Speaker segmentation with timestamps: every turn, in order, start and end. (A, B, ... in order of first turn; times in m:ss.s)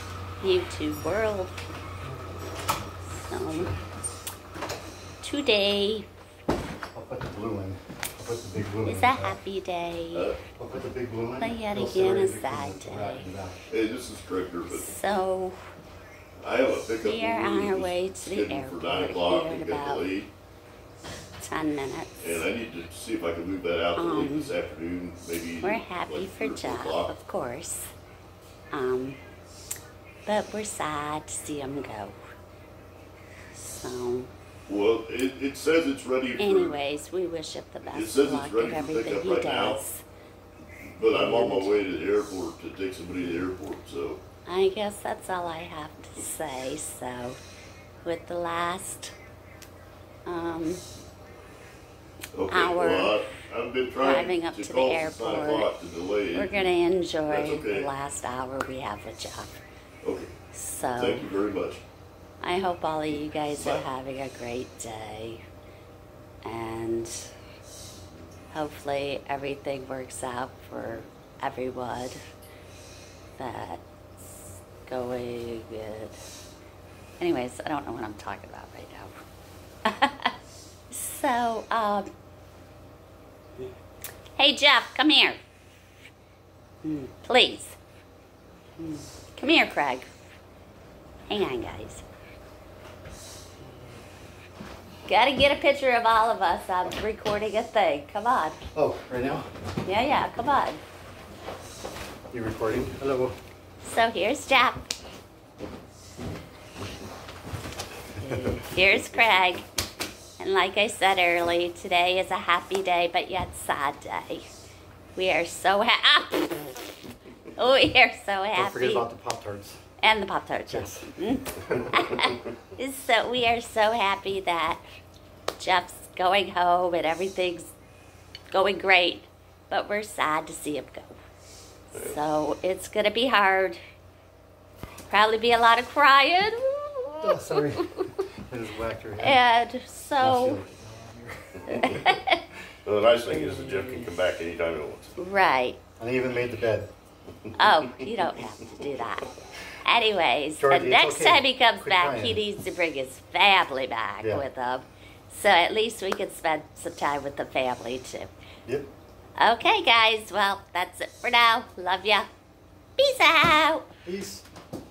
0:00.4-0:01.6 A
0:03.1-0:03.8 A
0:05.2-0:06.1 A
0:06.9-0:09.4 B
0:08.8-0:10.3 A
0:10.1-0:10.4 C
0:10.6-0:13.7 B
0:11.4-0:13.3 A
0:13.7-0:14.9 C
0:14.7-0:15.6 A
0:16.4-0:20.3 C
0:17.0-0:20.1 A
0:21.4-0:22.4 A
0:22.2-0:27.2 C
0:24.0-0:24.6 A
0:25.6-0:27.9 A
0:28.7-0:29.2 A
0:30.2-0:32.2 A
0:33.5-0:34.3 A
0:34.7-0:36.8 C
0:36.4-0:40.0 A
0:37.9-0:39.8 C
0:40.8-0:44.2 C
0:41.1-0:41.9 A
0:44.4-0:47.4 A
0:48.0-0:49.1 A
0:50.2-0:50.8 A
0:52.3-0:56.7 C
0:52.5-0:53.4 A
0:54.0-0:55.7 A
0:56.3-0:59.6 A
0:57.3-0:57.9 C
1:00.0-1:00.3 C
1:00.5-1:01.3 A
1:00.9-1:01.8 C
1:02.4-1:05.4 A
1:03.3-1:03.9 C
1:06.4-1:07.3 A
1:08.5-1:12.2 A
1:13.4-1:16.2 A
1:17.2-1:19.1 A
1:19.8-1:20.3 A
1:20.9-1:22.1 A
1:24.4-1:25.4 A
1:26.8-1:27.8 A
1:28.8-1:30.1 A
1:31.3-1:32.0 A
1:35.1-1:38.6 A
1:38.7-1:39.5 B
1:39.8-1:40.8 A
1:42.3-1:43.4 B
1:43.8-1:44.9 A
1:48.2-1:49.6 A
1:50.4-1:54.4 A
1:55.1-1:56.8 A
1:57.5-1:59.1 A
1:58.6-1:59.8 B
2:00.0-2:04.8 A
2:00.7-2:01.1 B
2:01.6-2:02.2 B
2:05.6-2:07.7 A
2:08.5-2:11.1 A
2:11.9-2:13.8 A
2:15.1-2:18.2 A
2:17.2-2:19.4 B
2:19.2-2:20.6 A
2:20.2-2:22.2 B
2:21.7-2:22.4 A
2:22.8-2:25.2 C
2:23.3-2:24.1 A
2:25.2-2:25.8 A
2:26.0-2:26.9 B
2:27.6-2:29.3 A
2:27.8-2:28.1 C
2:29.8-2:38.3 A
2:30.6-2:32.4 B
2:39.4-2:42.3 A
2:43.0-2:43.9 A
2:44.0-2:44.4 B